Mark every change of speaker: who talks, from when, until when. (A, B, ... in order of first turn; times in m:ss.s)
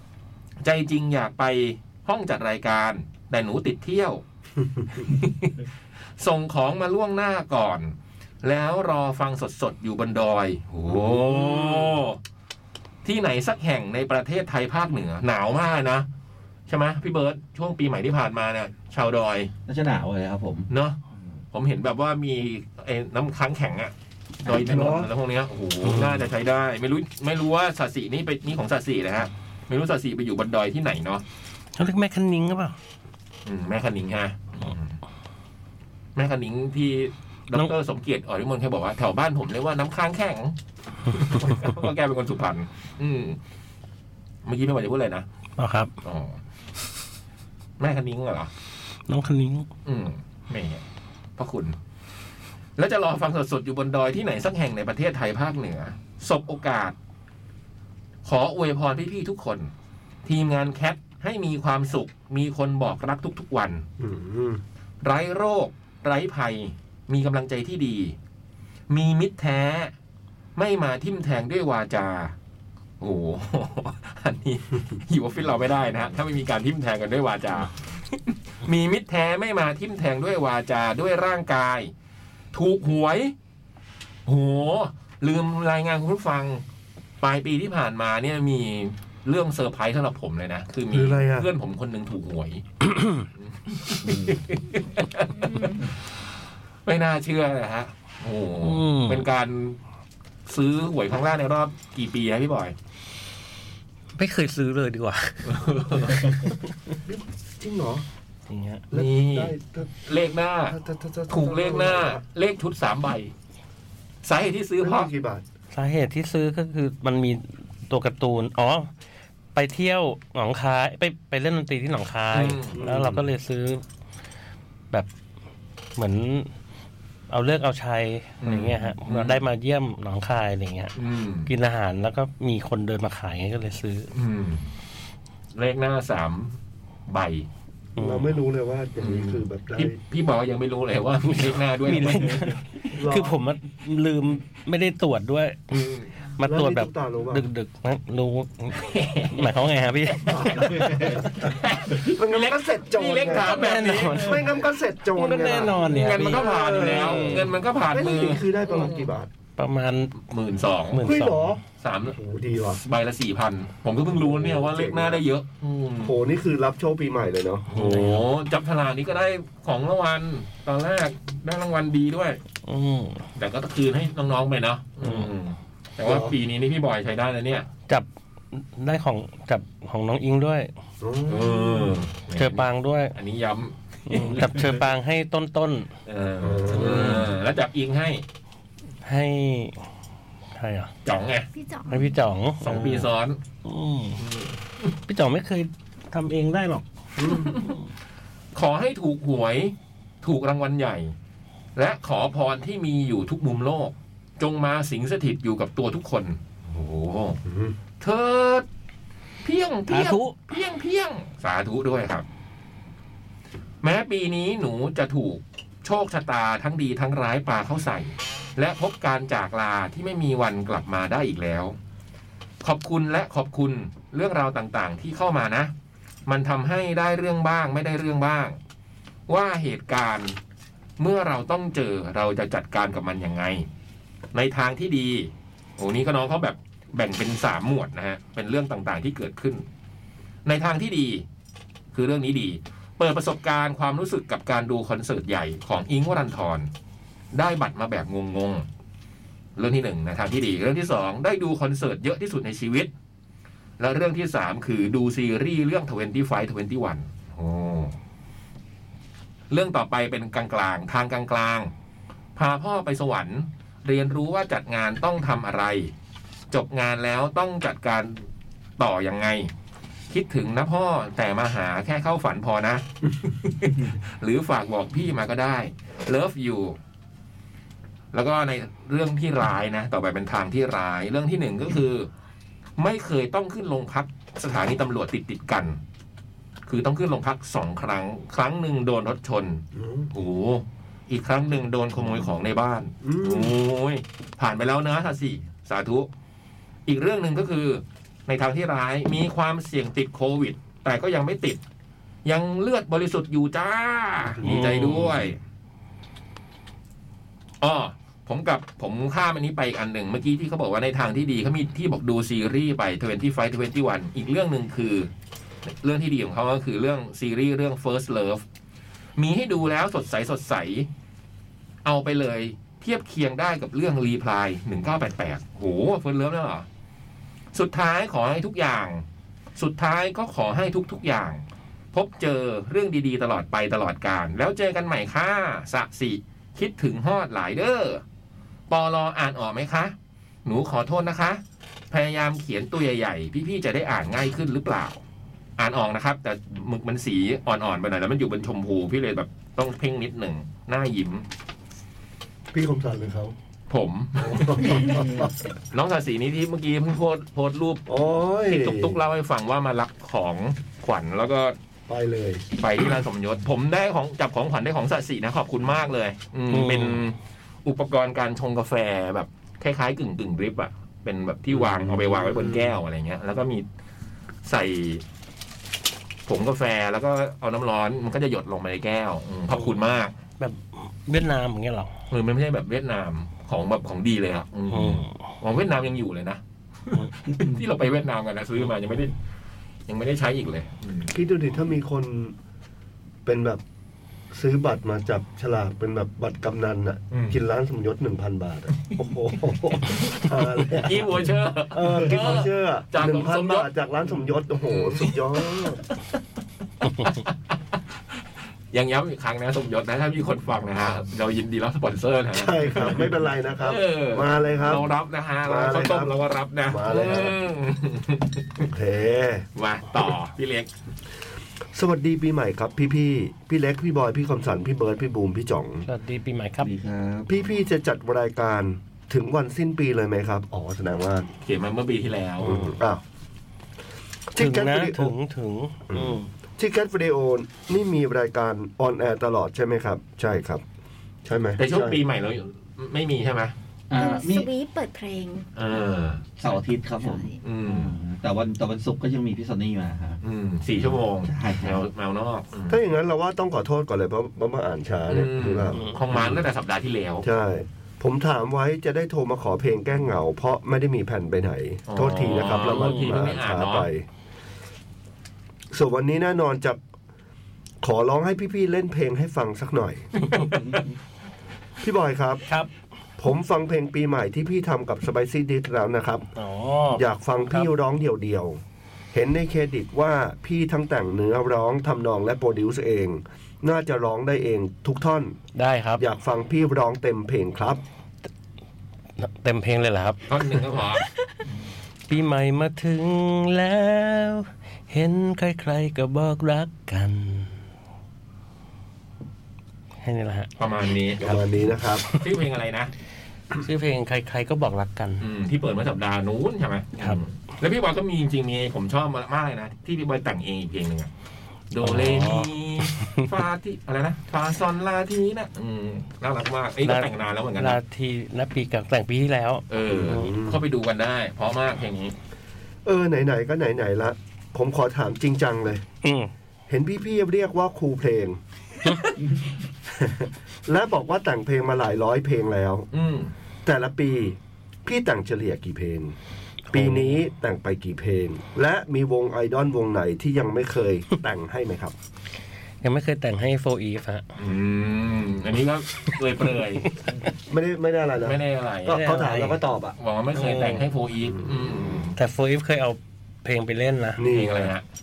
0:00.6-0:04.2 A
0:04.8-0:05.0 B
0:04.9-0:05.6 A
0:06.2-0:12.2 A
0:13.0-0:16.1 A
0:16.7-0:19.5 A
0:19.7-0:20.7 C
0:20.7-0:21.0 A
0:21.5-0:23.9 A
0:24.4-0:31.2 A
0:24.4-0:25.1 B
0:25.8-0:26.3 D
0:31.8-0:32.8 D
0:33.4-0:35.0 A
0:36.2-0:40.6 A
0:41.1-0:43.4 A
0:41.3-0:41.6 D
0:44.4-0:45.2 A
0:45.6-0:45.9 D
0:46.0-0:46.4 A
0:47.8-0:48.5 A
0:49.1-0:49.7 D
0:49.8-0:50.8 A
0:51.4-0:51.7 A
0:52.8-0:57.0 A
0:58.2-0:59.7 A
1:00.2-1:03.8 A
1:04.0-1:04.6 B
1:05.0-1:08.2 A
1:08.9-1:09.9 A
1:10.6-1:12.3 A
1:13.0-1:21.9 A
1:22.5-1:23.3 A
1:24.2-1:26.6 A
1:27.2-1:32.6 A
1:30.9-1:31.5 B
1:32.8-1:33.2 D
1:33.4-1:35.8 A
1:34.0-1:34.4 C
1:35.4-1:35.8 E
1:36.8-1:39.8 A
1:38.6-1:39.2 D
1:40.5-1:42.7 A
1:44.2-1:45.5 D
1:45.4-1:46.4 A
1:46.1-1:46.5 D
1:47.0-1:48.0 B
1:48.5-1:48.8 D
1:48.9-1:49.9 B
1:48.9-1:50.8 A
1:50.7-1:52.2 B
1:51.3-1:53.3 A
1:54.2-1:55.1 A
1:54.8-1:55.4 B
1:55.7-1:58.9 D
1:59.5-2:03.8 D
2:02.3-2:02.8 A
2:02.7-2:03.3 B
2:06.0-2:06.5 D
2:07.3-2:10.9 D
2:08.4-2:09.4 A
2:11.0-2:11.5 A
2:11.4-2:14.1 D
2:14.1-2:14.7 A
2:15.5-2:17.5 A
2:18.0-2:18.3 D
2:18.0-2:20.0 B
2:19.0-2:22.6 A
2:21.3-2:31.3 D
2:22.9-2:23.4 B
2:25.7-2:26.1 A
2:26.4-2:27.4 B
2:28.7-2:29.5 A
2:30.2-2:39.3 B
2:31.4-2:34.3 A
2:33.4-2:34.5 D
2:35.1-2:37.5 D
2:35.8-2:38.4 A
2:39.6-2:40.2 D
2:40.3-2:41.0 A
2:40.9-2:41.6 D
2:41.0-2:42.8 B
2:41.8-2:42.2 A
2:42.8-2:46.1 A
2:44.1-2:45.2 B
2:46.0-2:47.7 B
2:47.7-2:52.4 A
2:47.7-2:48.2 D
2:52.6-2:53.2 D
2:53.4-2:57.7 A
2:55.0-2:55.3 D
2:56.0-2:56.3 B
2:57.9-3:00.7 D
3:01.0-3:02.0 B
3:01.3-3:04.3 A
3:02.3-3:03.1 D
3:04.1-3:05.9 D
3:06.0-3:08.2 A
3:06.4-3:07.3 B
3:09.0-3:09.8 D
3:10.5-3:10.9 D
3:11.0-3:11.5 A
3:11.5-3:12.1 E
3:11.9-3:13.1 D
3:12.6-3:13.4 A
3:13.6-3:14.2 D
3:14.2-3:14.9 A
3:15.1-3:16.8 D
3:17.2-3:17.6 B
3:18.5-3:21.1 A
3:21.8-3:27.4 A
3:27.4-3:27.8 B
3:28.0-3:28.6 A
3:29.4-3:32.2 A
3:29.9-3:30.3 D
3:33.8-3:41.8 A
3:42.6-3:45.7 A
3:46.3-3:48.6 A
3:49.3-3:50.4 A
3:51.0-3:53.7 A
3:54.3-3:59.6 A
4:00.4-4:01.2 A
4:01.9-4:06.7 A
4:07.3-4:08.6 A
4:09.6-4:12.9 A
4:13.8-4:18.0 A
4:19.5-4:21.7 A
4:22.4-4:25.9 A
4:26.5-4:28.3 A
4:28.8-4:29.5 A
4:30.1-4:36.8 A
4:38.1-4:42.1 A
4:42.8-4:45.8 A
4:46.6-4:56.1 A
4:49.7-4:50.1 B
4:53.0-4:53.6 B
4:56.8-5:01.6 A
5:02.2-5:05.4 A
5:04.4-5:05.2 D
5:07.6-5:15.1 A
5:15.6-5:18.4 A
5:19.2-5:20.9 A
5:21.8-5:26.6 A
5:27.5-5:29.0 A
5:29.6-5:38.0 A
5:38.7-5:45.0 A
5:45.6-5:51.2 A
5:52.5-5:53.3 B
5:53.7-5:54.9 A
5:54.2-5:55.5 B
5:55.7-5:57.8 A
5:57.9-5:59.0 B
5:58.5-6:01.6 A
6:01.9-6:02.4 B
6:02.6-6:13.6 A
6:06.5-6:07.0 D
6:11.8-6:12.8 B
6:14.4-6:15.0 A
6:16.3-6:20.1 A
6:20.4-6:21.9 D
6:22.1-6:29.2 A
6:24.7-6:25.1 D
6:29.9-6:31.1 A
6:31.1-6:32.3 B
6:33.2-6:33.6 B
6:34.3-6:45.8 B
6:37.1-6:37.4 A
6:40.7-6:43.7 A
6:44.6-6:45.7 A
6:47.0-6:47.3 A
6:48.7-6:58.6 A
6:52.3-6:54.9 B
6:55.4-6:56.1 B
6:56.7-6:57.3 B
6:58.6-6:59.5 B
6:59.6-7:00.7 A
7:01.7-7:05.8 B
7:05.8-7:06.7 D
7:06.6-7:07.3 C
7:07.3-7:11.3 B
7:11.4-7:12.6 A
7:12.4-7:13.0 B
7:14.3-7:15.1 B
7:14.4-7:16.3 D
7:15.9-7:20.6 B
7:21.2-7:22.0 B
7:21.6-7:23.5 A
7:23.9-7:24.5 C
7:23.9-7:25.5 E
7:25.5-7:26.2 A
7:26.4-7:30.2 C
7:27.0-7:27.4 E
7:27.4-7:27.9 A
7:30.2-7:32.8 A
7:30.8-7:31.9 C
7:32.7-7:36.4 B
7:35.1-7:37.2 A
7:37.2-7:44.1 B
7:41.9-7:43.9 A
7:42.6-7:43.1 D
7:45.7-7:46.8 B
7:47.8-7:50.1 B
7:50.2-7:50.9 A
7:50.5-7:50.9 C
7:51.8-7:52.4 B
7:53.2-7:56.2 B
7:56.4-7:57.7 D
7:56.9-7:58.6 B
7:59.1-8:05.4 B
8:05.5-8:06.0 D
8:06.0-8:07.8 B
8:09.2-8:10.6 D
8:10.3-8:11.0 A
8:12.1-8:17.5 D
8:20.0-8:20.5 D
8:20.6-8:21.4 A
8:21.2-8:22.1 B
8:22.1-8:22.9 A
8:23.5-8:25.2 D
8:25.2-8:31.1 A
8:31.7-8:37.8 A
8:31.8-8:33.3 D
8:36.8-8:40.3 D
8:39.7-8:42.1 A
8:39.9-8:40.6 B
8:42.8-8:45.8 B
8:46.0-8:46.3 D
8:46.7-8:48.4 B
8:48.8-8:49.1 D
8:49.9-8:52.9 B
8:52.9-8:53.3 A
8:53.6-8:56.2 B
8:56.7-9:01.9 B
8:56.7-8:57.0 D
9:02.8-9:04.3 D
9:04.4-9:06.9 A
9:07.5-9:10.0 B
9:08.2-9:09.0 A
9:08.9-9:09.6 D
9:10.0-9:12.2 A
9:10.3-9:10.8 D
9:11.4-9:12.0 B
9:12.2-9:14.2 D
9:14.2-9:14.7 B
9:14.3-9:14.8 A